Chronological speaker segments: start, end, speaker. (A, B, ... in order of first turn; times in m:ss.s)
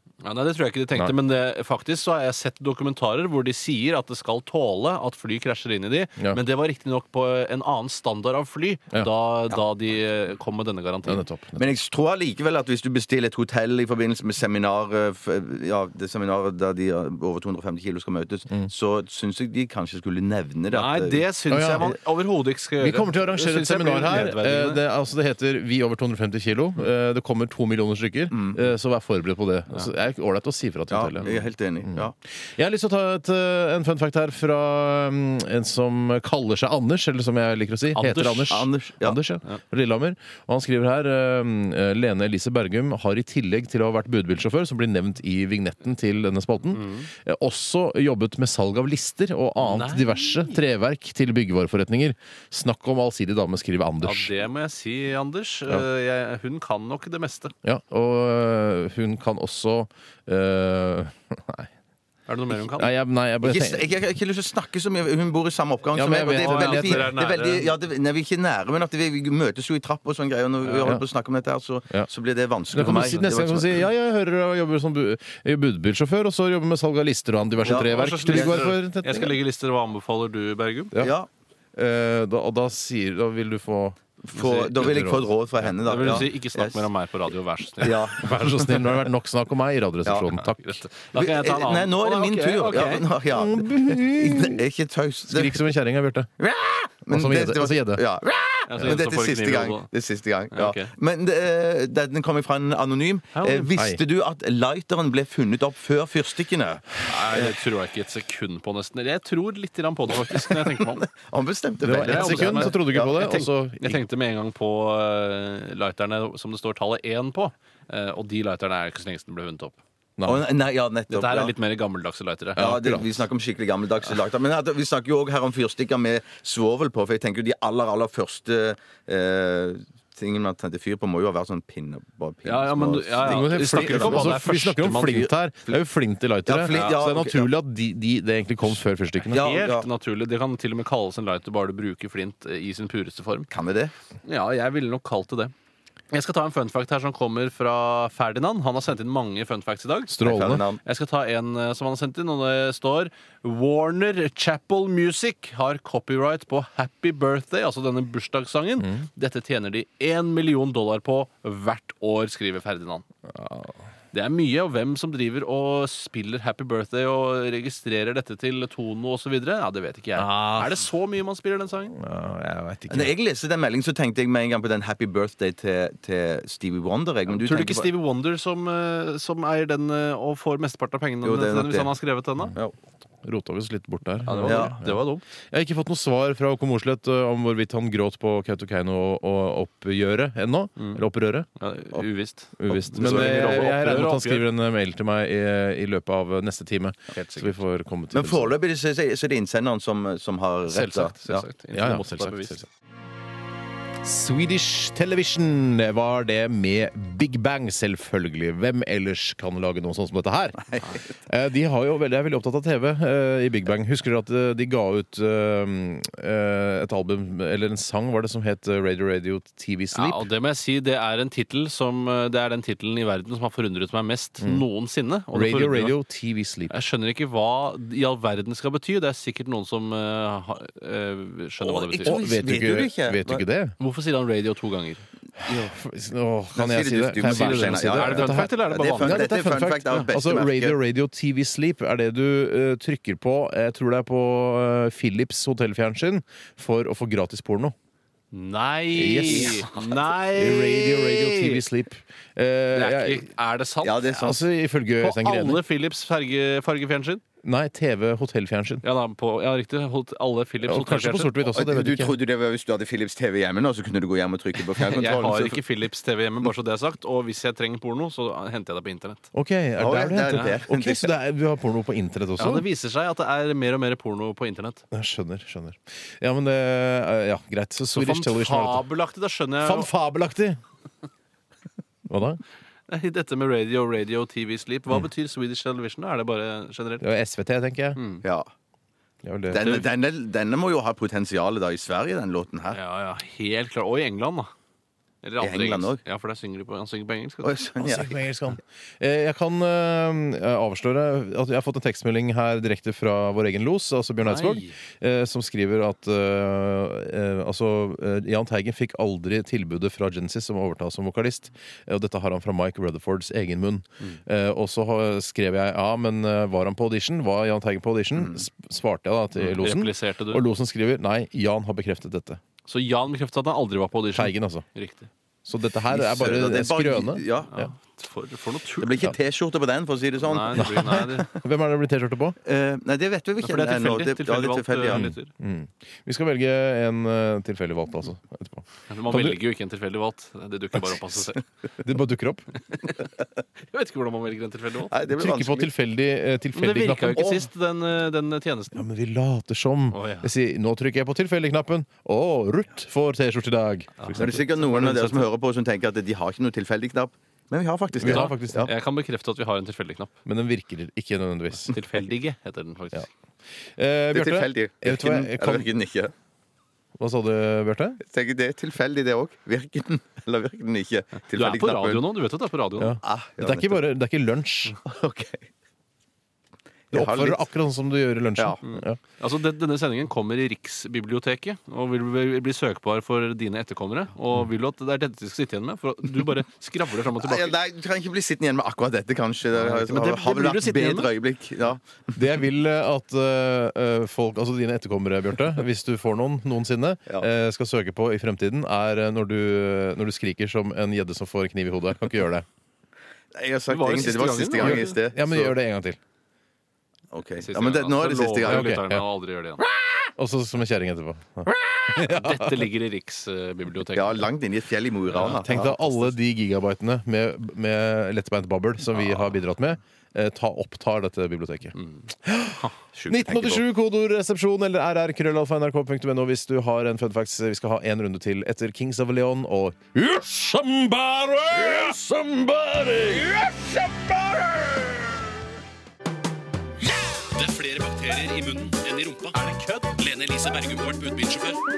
0:00.2-0:11.2 A
0:11.0-0:11.7 B
0:11.6-0:21.2 C
0:20.7-0:24.8 A
0:21.5-0:21.9 B
0:22.8-0:31.3 B
0:28.3-0:28.6 C
0:30.9-0:32.1 C
0:31.8-0:54.3 B
0:37.9-0:38.5 A
0:38.5-0:39.2 C
0:46.7-0:47.1 A
0:49.6-0:50.6 A
0:54.0-0:57.5 A
0:57.6-1:01.7 B
1:02.3-1:02.9 A
1:02.6-1:03.9 B
1:03.4-1:13.8 C
1:05.9-1:07.1 B
1:06.1-1:07.7 A
1:10.6-1:10.9 A
1:12.7-1:19.3 B
1:17.6-1:20.9 A
1:17.6-1:18.7 C
1:21.0-1:21.3 C
1:21.7-1:24.0 B
1:24.3-1:26.8 C
1:24.3-1:24.8 A
1:24.7-1:26.2 B
1:25.8-1:28.3 A
1:27.8-1:28.8 C
1:28.2-1:30.8 B
1:30.5-1:33.1 A
1:31.1-1:35.6 C
1:33.3-1:34.6 B
1:35.3-1:36.3 B
1:36.4-1:47.5 C
1:37.1-1:38.0 B
1:38.7-1:39.9 A
1:40.5-1:40.9 A
1:43.3-1:43.7 A
1:43.7-1:44.0 B
1:47.0-1:51.0 A
1:50.3-1:53.2 C
1:51.8-1:54.0 B
1:52.0-1:59.8 A
2:00.2-2:00.4 B
2:00.2-2:01.5 C
2:01.1-2:02.7 A
2:02.6-2:03.2 B
2:02.6-2:14.4 C
2:12.4-2:15.3 A
2:13.2-2:19.4 B
2:14.9-2:15.8 C
2:16.4-2:17.5 C
2:16.7-2:17.0 A
2:19.3-2:23.5 A
2:19.3-2:19.9 C
2:23.5-2:23.9 C
2:24.2-2:25.5 A
2:26.1-2:30.1 A
2:30.1-2:30.6 B
2:30.2-2:30.8 C
2:30.8-2:43.0 A
2:43.3-2:43.8 B
2:44.1-2:51.9 A
2:50.2-2:50.8 B
2:51.9-2:53.1 B
2:52.9-2:57.9 C
2:57.3-3:02.5 A
3:01.2-3:01.9 C
3:03.2-3:05.0 B
3:04.2-3:05.2 A
3:04.4-3:04.7 C
3:05.5-3:11.5 B
3:10.8-3:11.0 A
3:11.6-3:14.4 A
3:12.6-3:18.5 B
3:13.0-3:13.4 C
3:18.1-3:21.4 C
3:20.7-3:22.6 A
3:21.7-3:22.7 B
3:24.0-3:40.3 B
3:39.9-3:46.0 A
3:44.4-3:44.6 B
3:45.3-3:46.7 B
3:46.7-3:52.2 A
3:51.6-3:53.4 C
3:52.0-3:53.8 B
3:53.8-3:55.0 A
3:55.4-3:55.7 C
3:55.4-4:07.7 B
3:56.5-4:00.8 C
3:57.2-3:59.3 A
4:08.3-4:11.6 A
4:08.9-4:09.7 B
4:09.3-4:09.9 C
4:10.2-4:13.3 B
4:12.7-4:14.2 A
4:13.8-4:14.4 C
4:14.2-4:15.6 B
4:15.0-4:17.2 A
4:17.4-4:18.8 B
4:18.8-4:21.5 A
4:20.6-4:22.2 B
4:21.5-4:25.6 C
4:24.8-4:29.3 A
4:29.3-4:32.6 B
4:29.8-4:31.1 C
4:32.4-4:34.8 A
4:34.9-4:38.8 B
4:37.9-4:39.9 A
4:39.6-4:40.6 B
4:42.0-4:42.4 B
4:42.9-4:47.0 A
4:47.0-4:48.0 B
4:48.0-4:48.2 A
4:48.2-4:48.5 C
4:49.2-4:49.8 B
4:49.5-4:52.8 C
4:52.7-4:54.5 A
4:55.2-4:57.6 A
4:55.4-4:56.0 C
4:57.4-4:58.2 C
4:57.8-5:22.4 B
5:04.2-5:04.8 A
5:19.4-5:20.4 A
5:22.6-5:25.1 A
5:24.1-5:24.6 B
5:25.4-5:27.7 B
5:25.9-5:27.5 C
5:27.5-5:29.1 A
5:28.8-5:31.3 C
5:30.2-5:31.3 A
5:30.6-5:32.4 B
5:32.4-5:35.1 C
5:33.4-5:35.3 A
5:34.9-5:39.4 B
5:38.9-5:41.4 A
5:41.8-5:42.5 B
5:43.6-5:44.9 A
5:44.9-5:45.7 C
5:45.1-5:47.4 B
5:46.5-5:48.8 A
5:47.1-5:47.4 C
5:48.7-5:54.4 B
5:49.9-5:50.3 A
5:54.0-5:55.3 A
5:54.2-5:58.7 C
5:58.0-5:58.7 B
5:58.0-6:00.1 A
6:00.2-6:01.8 B
6:01.7-6:03.1 A
6:03.8-6:05.7 B
6:04.1-6:06.1 C
6:07.0-6:08.0 B
6:08.0-6:12.0 C
6:11.3-6:13.0 A
6:12.8-6:14.8 B
6:13.0-6:13.8 C
6:14.8-6:15.4 C
6:16.9-6:17.4 C
6:16.9-6:19.0 B
6:18.6-6:27.5 A
6:27.1-6:31.8 C
6:29.5-6:31.1 A
6:32.2-6:42.4 B
6:43.3-6:45.5 C
6:43.7-6:45.0 A
6:44.6-6:46.0 B
6:47.1-6:48.7 C
6:47.4-6:49.6 A
6:48.4-6:49.0 B
6:50.2-6:52.7 B
6:52.0-6:54.3 A
6:53.9-6:56.1 C
6:55.1-6:55.4 A
6:55.1-7:12.0 B
6:59.0-6:59.3 A
7:01.8-7:02.0 A
7:03.0-7:03.6 C
7:11.7-7:15.1 D
7:12.6-7:13.2 B
7:16.8-7:21.6 D
7:19.3-7:19.9 A